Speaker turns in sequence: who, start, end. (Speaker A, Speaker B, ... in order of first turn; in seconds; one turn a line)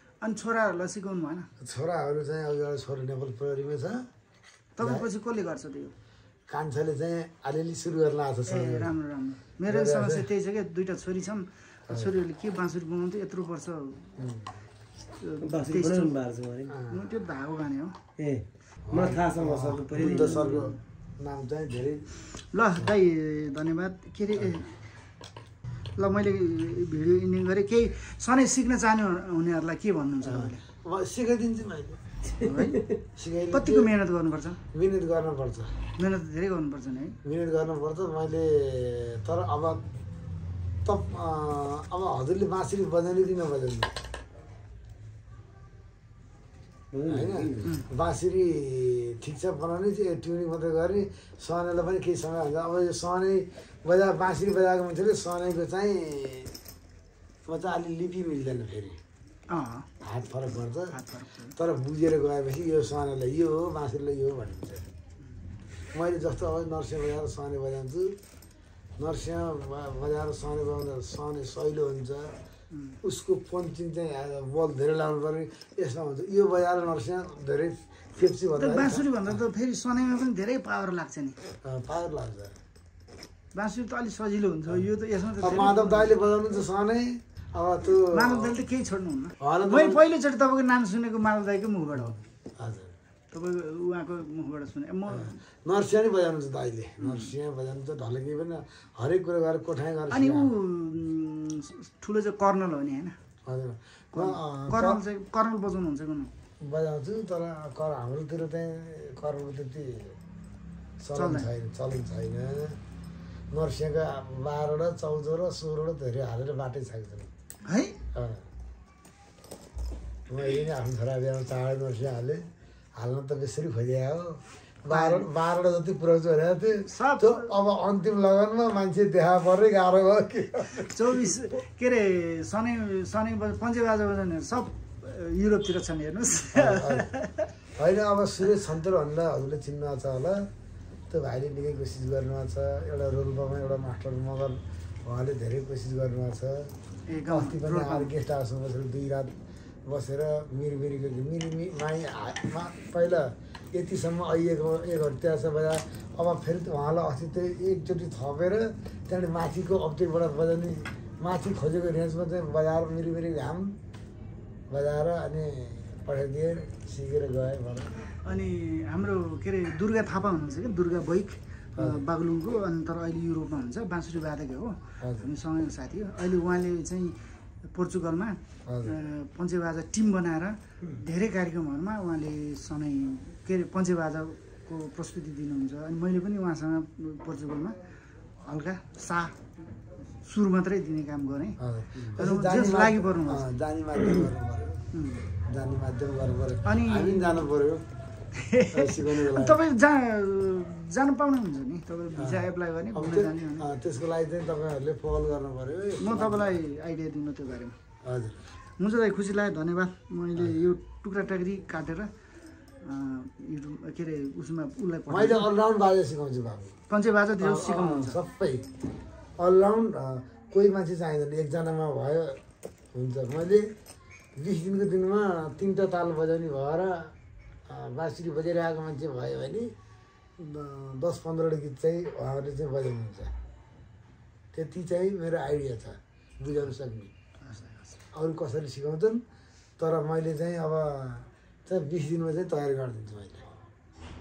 Speaker A: 0.2-1.5
Speaker B: 1.6-4.1
Speaker A: 4.8-5.9
Speaker B: 4.8-5.1
Speaker B: 6.5-8.9
Speaker A: 8.5-14.2
Speaker B: 9.7-10.3
Speaker B: 11.9-12.1
Speaker B: 14.2-14.6
Speaker A: 15.2-16.1
Speaker C: 15.4-16.8
Speaker B: 16.7-17.1
Speaker A: 16.9-18.0
Speaker C: 18.2-20.8
Speaker B: 18.9-22.1
Speaker A: 20.0-20.6
Speaker A: 22.5-24.7
Speaker A: 26.0-30.6
Speaker B: 30.2-32.0
Speaker A: 32.4-32.9
Speaker C: 32.4-33.0
Speaker B: 33.2-33.9
Speaker A: 33.5-34.6
Speaker B: 34.7-35.8
Speaker A: 36.0-37.2
Speaker B: 37.2-39.8
Speaker B: 40.9-43.9
Speaker C: 46.9-47.7
Speaker B: 47.1-56.5
Speaker B: 57.5-59.0
Speaker A: 59.5-59.9
Speaker B: 60.0-61.0
Speaker A: 60.9-61.5
Speaker B: 61.5-64.8
Speaker B: 65.9-68.2
Speaker B: 69.0-72.3
Speaker A: 72.7-73.0
Speaker B: 73.0-79.4
Speaker A: 78.6-81.4
Speaker B: 81.6-82.6
Speaker A: 83.5-86.1
Speaker B: 85.4-88.6
Speaker A: 88.1-92.2
Speaker B: 89.4-90.0
Speaker B: 92.6-92.9
Speaker A: 93.3-95.4
Speaker B: 95.1-100.5
Speaker A: 97.0-97.3
Speaker A: 100.1-103.2
Speaker B: 103.5-105.0
Speaker A: 104.1-106.3
Speaker B: 106.6-110.2
Speaker B: 111.0-112.8
Speaker A: 111.1-111.5
Speaker B: 113.5-117.3
Speaker A: 117.7-118.0
Speaker B: 118.2-118.4
Speaker B: 120.3-122.4
Speaker B: 123.0-131.3
Speaker A: 124.9-125.3
Speaker A: 126.8-127.5
Speaker A: 130.9-137.5
Speaker B: 136.5-137.1
Speaker B: 137.8-140.5
Speaker B: 141.1-146.7
Speaker A: 147.1-148.1
Speaker B: 147.3-149.3
Speaker B: 149.9-163.8
Speaker B: 164.7-167.9
Speaker A: 168.2-177.2
Speaker B: 175.0-175.3
Speaker A: 177.7-187.8
Speaker B: 178.7-179.0
Speaker A: 188.4-189.4
Speaker A: 190.2-191.6
Speaker B: 191.6-194.8
Speaker A: 192.2-193.5
Speaker A: 194.9-195.3
Speaker B: 195.4-197.8
Speaker A: 196.7-197.4
Speaker A: 198.3-203.7
Speaker B: 198.7-199.6
Speaker B: 202.2-206.6
Speaker A: 206.0-207.8
Speaker B: 208.0-208.4
Speaker A: 208.8-212.1
Speaker B: 210.3-210.6
Speaker A: 212.8-215.5
Speaker B: 215.1-216.8
Speaker A: 216.9-218.2
Speaker B: 217.4-218.7
Speaker B: 219.4-222.4
Speaker B: 222.9-223.7
Speaker B: 224.4-227.1
Speaker B: 227.7-229.7
Speaker B: 230.4-233.3
Speaker B: 234.5-237.1
Speaker A: 237.4-238.0
Speaker B: 238.1-239.2
Speaker B: 239.8-243.5